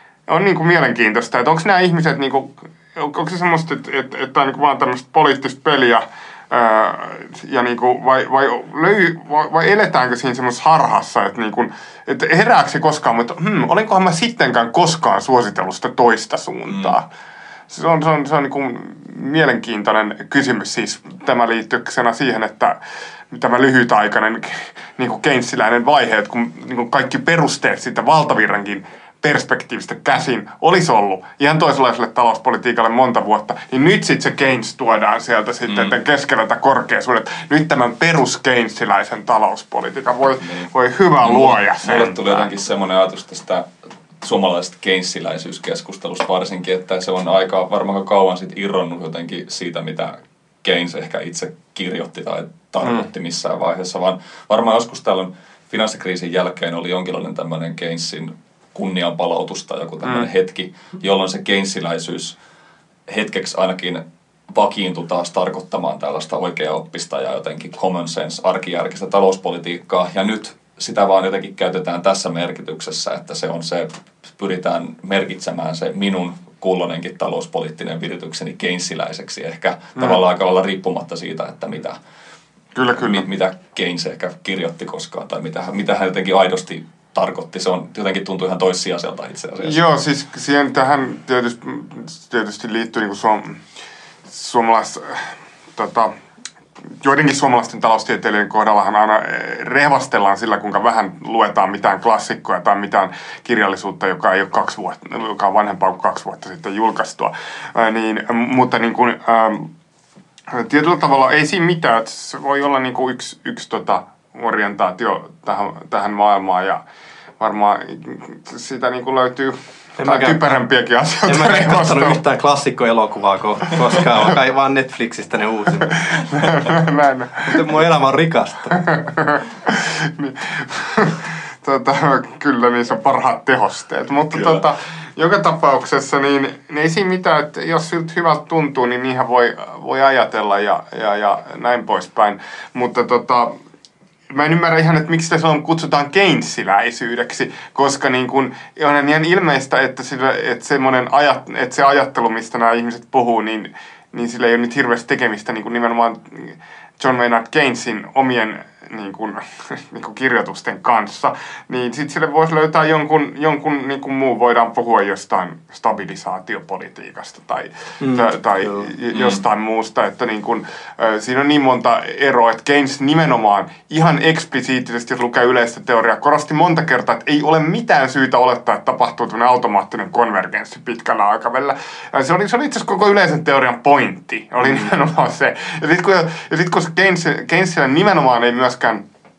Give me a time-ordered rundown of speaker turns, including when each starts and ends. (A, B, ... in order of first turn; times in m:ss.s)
0:00.3-0:17.0 A
0:16.7-0:17.0 B
0:17.7-0:22.8 A
0:23.3-0:42.5 A
0:35.7-0:36.0 B
0:41.2-0:43.7 B
0:44.2-1:02.4 B
1:03.1-1:22.0 B
1:22.7-1:23.2 A
1:22.9-1:29.8 B
1:29.6-1:33.6 A
1:34.3-1:36.1 A
1:37.0-1:49.7 A
1:50.5-1:56.8 A
1:57.4-2:02.2 A
2:00.0-2:00.4 C
2:01.3-2:06.1 C
2:05.8-2:07.6 A
2:07.4-2:08.8 C
2:08.7-2:23.5 A
2:24.3-3:09.0 A
2:48.0-2:48.9 C
2:49.1-2:49.4 B